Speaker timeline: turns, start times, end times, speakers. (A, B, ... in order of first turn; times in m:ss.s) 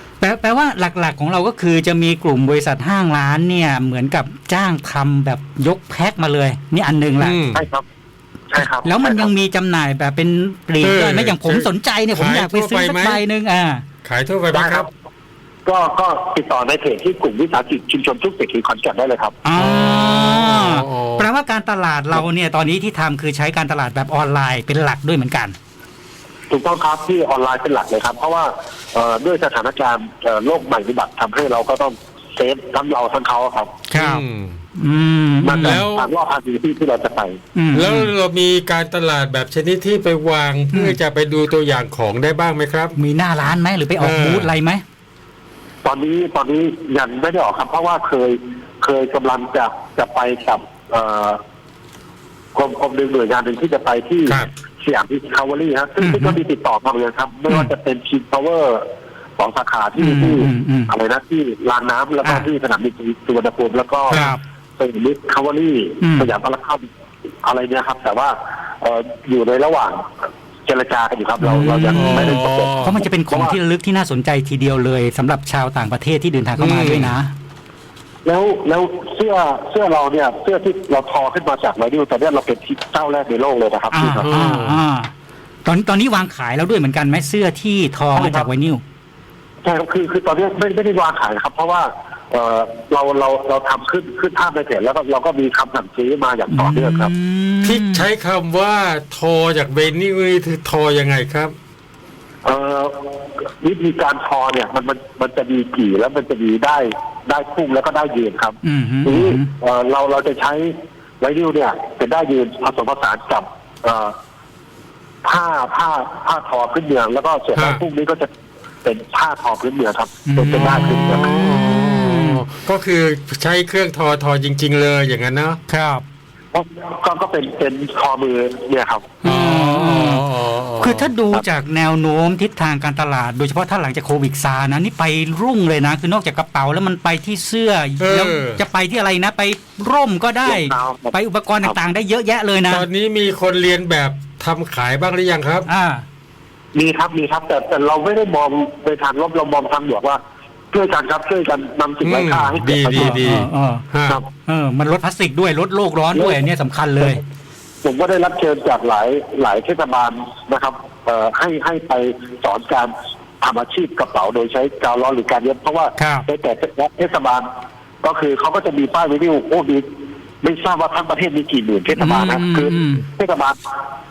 0:00.2-0:07.4 A
0:07.2-0:07.6 B
0:07.5-0:07.8 C
0:08.5-0:09.3 C
0:08.8-0:13.8 A
0:10.8-0:13.2 B
0:14.0-0:14.9 B
0:14.5-0:14.9 C
0:15.7-0:19.4 C
0:19.4-0:25.6 A
0:19.6-0:21.3 B
0:26.5-0:33.8 C
0:33.9-0:34.2 A
0:33.9-0:34.6 B
0:34.8-0:35.8 A
0:35.4-0:37.4 C
0:35.6-0:36.1 B
0:37.6-0:38.1 A
0:37.7-0:43.0 B
0:43.0-0:44.8 A
0:44.0-0:44.5 B
0:45.8-0:51.4 C
0:52.6-0:58.8 C
0:56.0-0:56.4 A
0:59.4-1:04.2 C
1:00.0-1:00.9 A
1:04.1-1:04.4 B
1:04.1-1:04.4 A
1:04.8-1:06.9 C
1:06.0-1:06.3 A
1:07.4-1:10.0 C
1:10.7-1:13.6 C
1:11.4-1:17.3 A
1:11.9-1:13.0 B
1:16.6-1:17.2 B
1:18.2-1:24.2 C
1:23.9-1:25.1 A
1:24.2-1:24.8 B
1:25.6-1:28.8 A
1:28.1-1:28.5 C
1:29.6-1:37.1 C
1:36.5-1:38.1 A
1:37.6-1:41.5 B
1:42.4-1:42.9 C
1:43.6-1:54.1 C
1:48.6-1:49.5 A
1:55.2-1:58.3 C
1:57.6-1:57.8 B
1:58.8-2:01.3 C
2:00.3-2:02.4 A
2:00.6-2:05.6 B
2:05.7-2:06.0 A
2:06.5-2:09.1 C
2:09.2-2:10.2 A
2:09.2-2:11.1 B
2:10.8-2:22.8 A
2:18.0-2:18.6 B
2:20.4-2:21.8 C
2:22.7-2:25.7 B
2:25.7-2:26.0 A
2:26.8-2:30.2 C
2:30.7-2:33.2 C
2:32.0-2:34.2 B
2:32.9-2:33.8 A
2:34.5-2:37.2 A
2:36.1-2:36.4 C
2:37.8-2:47.5 C
2:46.0-2:46.3 A
2:48.0-2:49.9 C
2:50.4-2:53.6 C
2:51.9-2:53.0 A